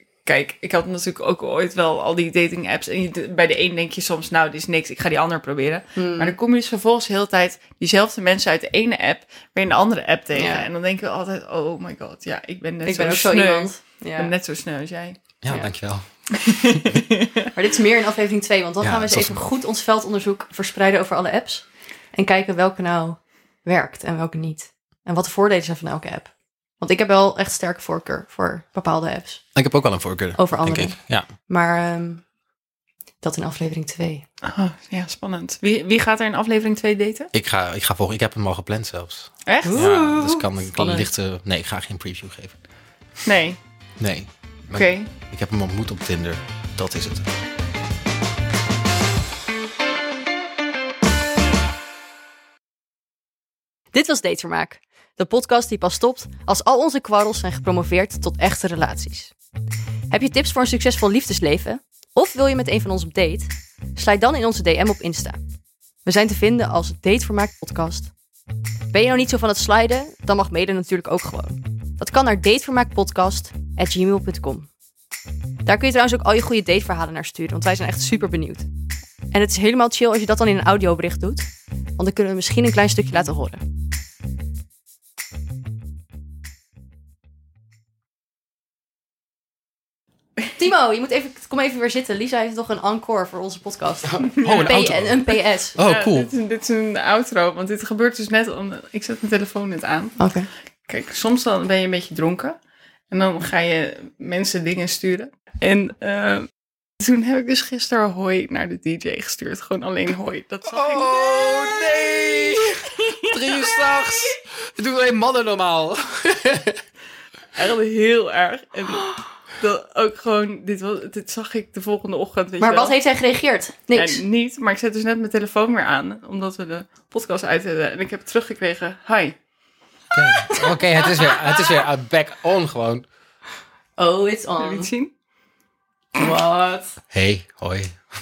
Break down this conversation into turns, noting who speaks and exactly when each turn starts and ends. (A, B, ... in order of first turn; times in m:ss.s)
0:00.2-0:15.2 A
0:06.0-0:06.4 B
0:10.3-0:10.7 B
0:12.8-0:14.3 B
0:15.4-0:16.2 C
0:16.3-0:17.5 A
0:16.7-0:17.0 C
0:17.5-0:29.4 B
0:18.8-0:19.4 C
0:29.5-0:31.3 C
0:30.4-0:32.2 B
0:33.2-0:34.2 B
0:34.4-0:37.3 A
0:37.3-0:42.5 C
0:39.4-0:39.8 A
0:39.6-0:41.1 B
0:43.2-0:43.6 A
0:44.0-0:47.2 C
0:44.7-0:45.1 A
0:53.9-0:59.3 B
1:00.1-1:05.4 B
1:06.0-1:08.1 B
1:08.9-1:14.7 B
1:15.6-1:18.7 B
1:19.3-1:23.6 B
1:30.6-1:35.8 B
1:34.2-1:35.2 C
1:34.3-1:34.8 A
1:35.7-1:36.3 C
1:35.8-1:40.2 A
1:40.2-1:40.5 B
1:40.9-1:42.6 A
1:43.1-1:51.7 A
1:50.7-1:56.8 C
1:52.8-1:53.7 A
1:57.5-2:02.9 A
2:02.6-2:04.2 B
2:03.9-2:09.3 A
2:10.1-2:13.0 C
2:10.3-2:11.7 B
2:14.0-2:14.9 B
2:14.6-2:15.1 A
2:16.1-2:17.0 B
2:17.1-2:18.0 C